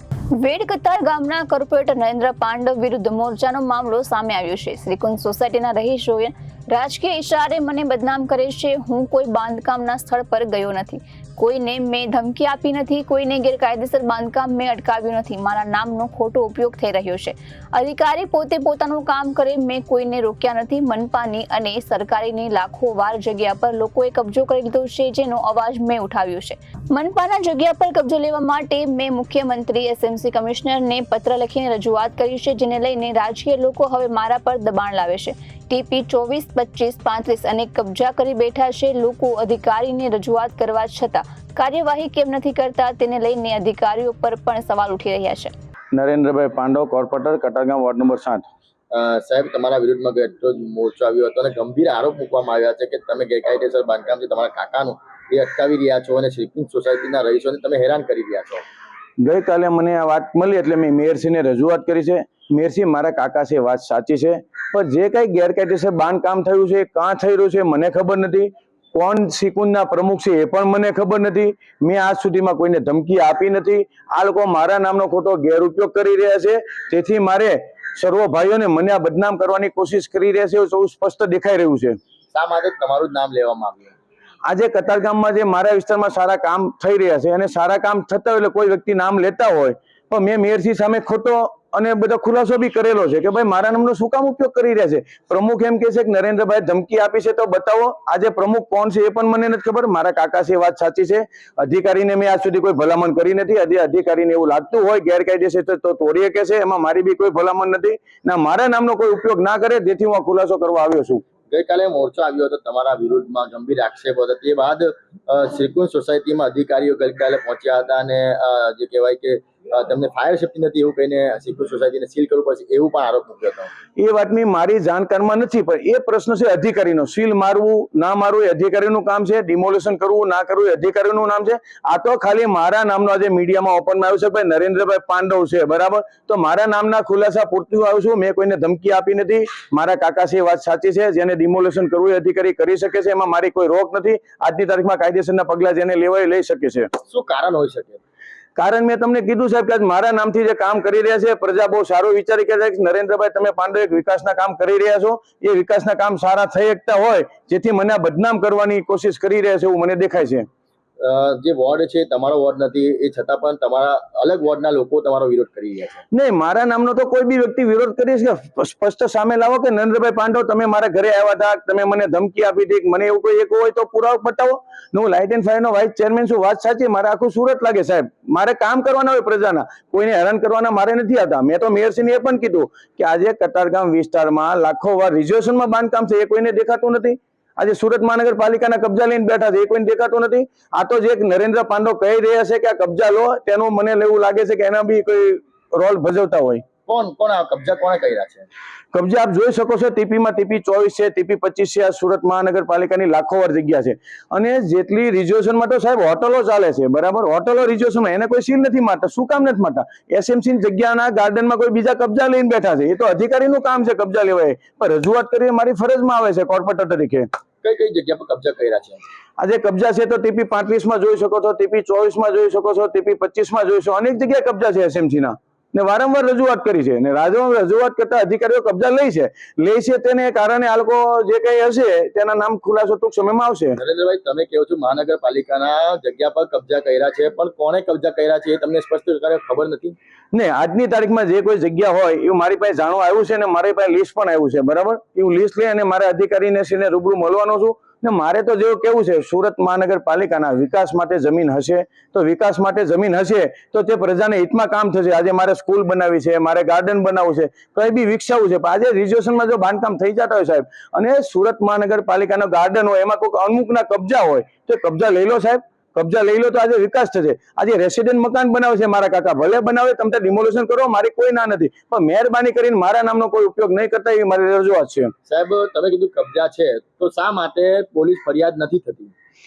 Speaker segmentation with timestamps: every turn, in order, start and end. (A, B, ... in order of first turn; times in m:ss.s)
0:00.3-0:45.5 A
0:45.9-0:48.4 B
0:48.9-0:58.6 C
0:59.2-1:22.0 B
1:22.3-1:23.9 C
1:24.5-1:51.2 B
1:51.5-2:03.7 C
2:04.0-2:26.9 B
2:27.1-2:28.0 C
2:28.6-2:40.5 B
2:41.0-2:46.0 C
2:46.1-3:16.6 B
3:16.9-3:18.5 C
3:18.9-3:37.3 B
3:37.6-3:39.1 C
3:39.4-3:53.8 B
3:53.8-4:00.0 C
4:00.3-4:35.1 B
4:35.3-4:39.1 C